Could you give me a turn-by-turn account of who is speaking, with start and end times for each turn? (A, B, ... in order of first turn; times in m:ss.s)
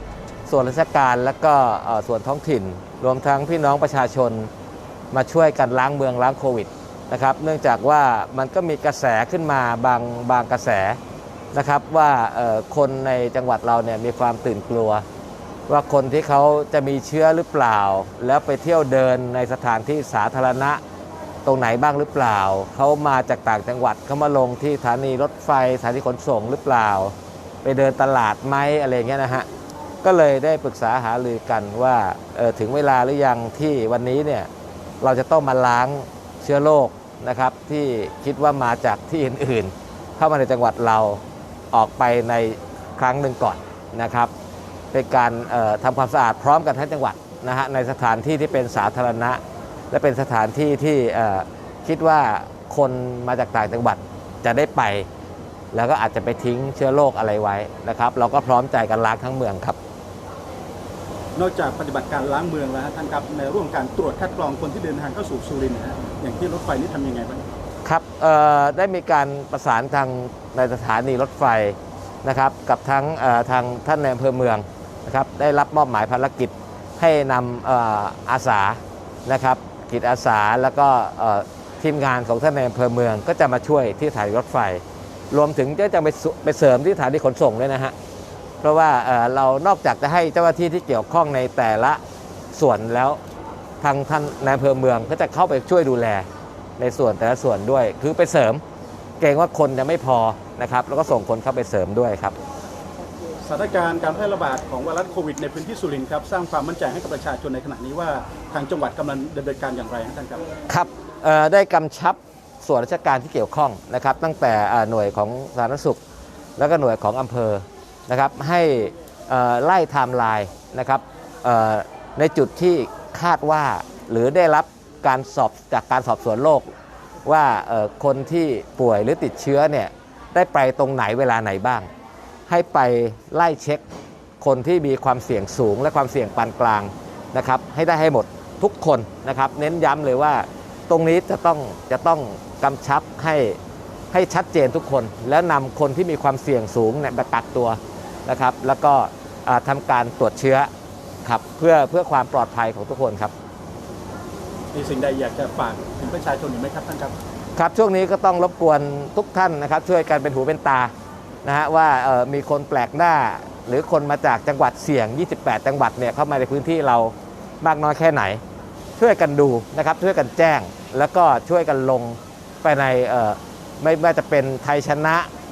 0:00.4-0:04.5 A
0:05.1-0:11.0 A
0:11.5-0:15.0 A
0:15.7-0:20.8 A
0:21.4-0:29.5 A
0:30.0-0:34.5 A
0:35.0-0:41.2 A
0:41.7-0:44.3 A
0:44.9-0:55.1 A
0:55.7-0:59.8 A
1:01.4-1:07.5 B
1:07.8-1:27.9 A
1:28.6-1:32.0 A
1:32.5-1:33.2 A
1:33.8-1:36.3 A
1:36.8-1:38.6 A
1:39.2-1:42.4 A
1:43.4-1:50.4 B
1:50.7-1:56.0 A
1:56.6-2:06.7 A
2:07.2-2:11.9 A
2:12.5-2:13.8 A
2:14.4-2:23.6 A
2:24.1-2:30.7 A
2:31.2-2:33.3 A
2:34.7-2:37.1 B
2:37.6-2:40.9 A
2:41.4-2:48.4 A
2:49.0-2:55.3 A